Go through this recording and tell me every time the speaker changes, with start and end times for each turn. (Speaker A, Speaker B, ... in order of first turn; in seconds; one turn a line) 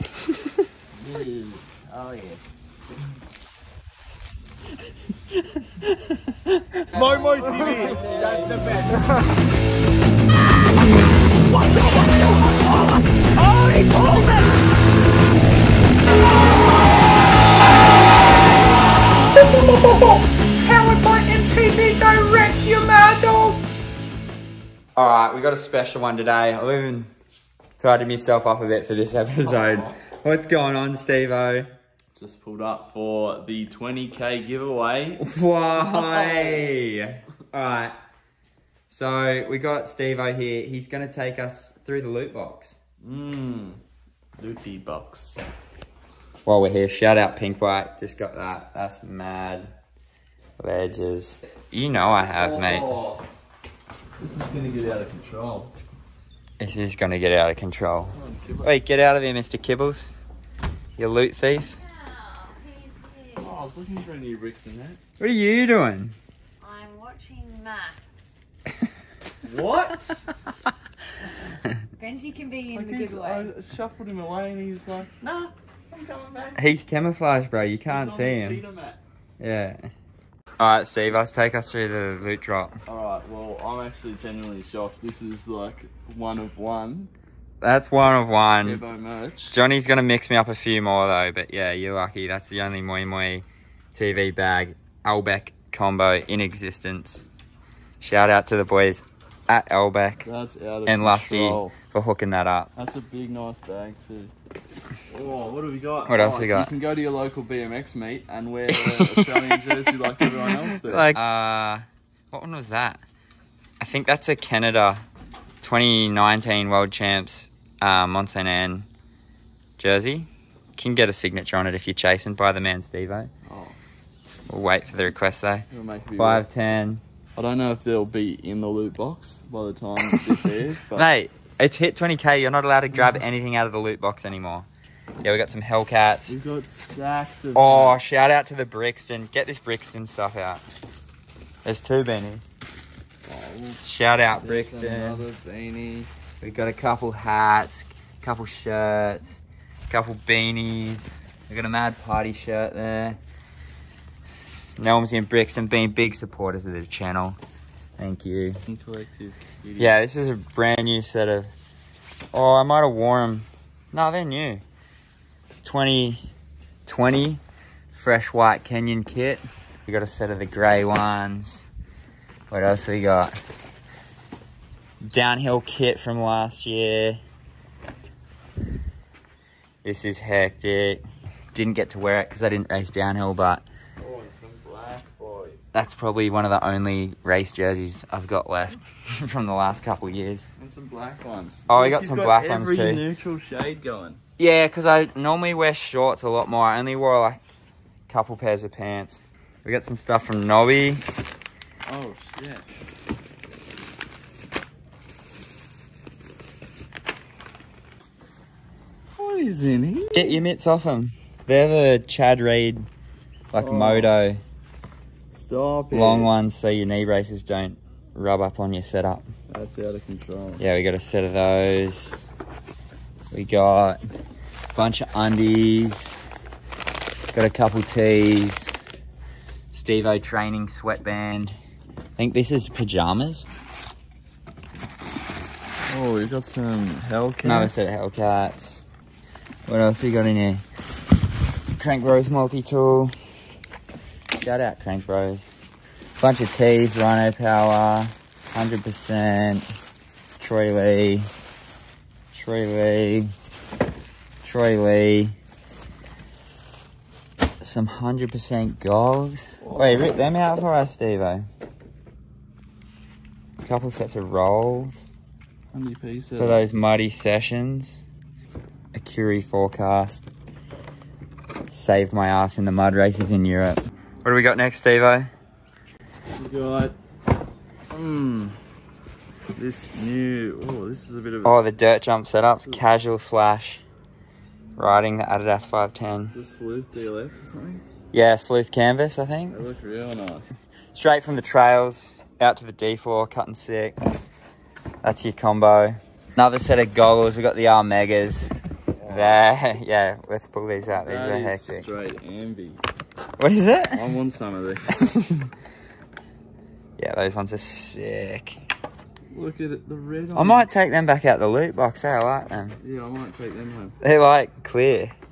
Speaker A: 0.9-2.4
Speaker B: 5.8-7.0
Speaker C: 7.0-9.1
Speaker A: 7.2-8.6
Speaker A: 11.7-12.3
Speaker A: 13.6-14.1
Speaker C: 13.6-14.5
Speaker B: 19.4-23.8
Speaker B: 25.0-27.1
Speaker B: 27.8-31.7
Speaker A: 29.6-29.9
Speaker A: 32.1-36.7
Speaker B: 35.2-37.9
Speaker B: 38.9-42.8
Speaker A: 43.0-43.8
Speaker A: 44.4-45.4
Speaker B: 46.5-49.7
Speaker B: 50.6-52.9
Speaker A: 52.0-53.2
Speaker A: 54.2-55.7
Speaker B: 56.6-60.1
Speaker A: 58.1-58.8
Speaker B: 61.0-61.8
Speaker D: 61.8-63.5
Speaker A: 63.4-65.0
Speaker B: 65.2-66.2
Speaker D: 66.6-68.4
Speaker A: 69.4-70.3
Speaker D: 72.0-73.5
Speaker A: 72.7-76.7
Speaker B: 76.6-78.6
Speaker A: 77.9-79.0
Speaker B: 79.4-79.8
Speaker B: 80.6-82.7
Speaker A: 82.9-87.1
Speaker B: 87.6-88.8
Speaker A: 88.6-89.6
Speaker B: 89.5-97.2
Speaker B: 98.0-100.2
Speaker A: 100.2-101.8
Speaker B: 100.9-102.7
Speaker A: 102.8-104.3
Speaker A: 105.1-111.2
Speaker B: 106.1-106.7
Speaker B: 109.0-109.3
Speaker B: 110.9-113.0
Speaker B: 113.8-115.0
Speaker B: 115.6-118.9
Speaker B: 119.8-123.3
Speaker A: 123.5-123.8
Speaker B: 124.5-127.0
Speaker A: 125.7-126.5
Speaker A: 127.4-131.1
Speaker B: 130.9-134.7
Speaker B: 135.2-136.4
Speaker A: 136.3-138.0
Speaker B: 137.6-140.6
Speaker B: 141.7-142.5
Speaker A: 143.2-146.1
Speaker B: 143.8-145.2
Speaker B: 146.4-153.2
Speaker B: 154.8-157.4
Speaker B: 158.0-158.6
Speaker A: 158.7-160.0
Speaker B: 159.8-161.5
Speaker B: 162.3-164.6
Speaker B: 165.6-166.2
Speaker B: 166.9-167.4
Speaker B: 167.9-171.7
Speaker B: 172.5-173.3
Speaker B: 175.1-177.2
Speaker B: 179.8-181.0
Speaker B: 181.5-183.7
Speaker A: 184.0-185.7
Speaker B: 185.7-190.5
Speaker A: 190.6-194.2
Speaker B: 191.7-193.0
Speaker B: 194.4-197.4
Speaker B: 198.1-201.0
Speaker A: 201.9-202.7
Speaker A: 209.2-210.4
Speaker B: 210.1-212.9
Speaker B: 213.5-214.4
Speaker A: 213.6-214.1
Speaker A: 215.3-216.3
Speaker B: 215.9-219.3
Speaker A: 219.5-220.7
Speaker B: 220.6-222.2
Speaker B: 223.3-224.0
Speaker B: 224.7-226.2
Speaker B: 227.3-228.8
Speaker B: 229.7-231.6
Speaker B: 232.2-233.5
Speaker A: 235.9-237.7
Speaker B: 237.4-238.9
Speaker B: 239.7-240.6
Speaker B: 241.8-243.1
Speaker B: 244.4-245.5
Speaker B: 246.2-249.7
Speaker B: 250.4-251.3
Speaker B: 252.3-253.3
Speaker B: 254.4-255.4
Speaker B: 257.6-261.4
Speaker A: 259.6-260.1
Speaker B: 263.6-265.1
Speaker A: 265.7-266.6
Speaker B: 266.4-268.0
Speaker B: 268.9-270.2
Speaker B: 271.7-275.3
Speaker A: 276.3-277.0
Speaker A: 277.9-278.6
Speaker A: 279.6-281.6
Speaker B: 281.4-283.8
Speaker A: 282.5-282.8
Speaker B: 284.8-286.4
Speaker A: 286.3-287.8
Speaker B: 288.1-289.6
Speaker A: 289.5-290.5
Speaker B: 290.9-294.0
Speaker B: 295.0-298.5
Speaker A: 299.0-299.4
Speaker B: 299.1-301.9
Speaker A: 301.0-302.8
Speaker B: 303.4-304.1
Speaker A: 304.0-304.9
Speaker B: 304.9-305.5
Speaker B: 307.0-308.6
Speaker A: 309.3-310.7
Speaker B: 310.4-312.8
Speaker A: 312.8-314.0
Speaker B: 314.0-315.1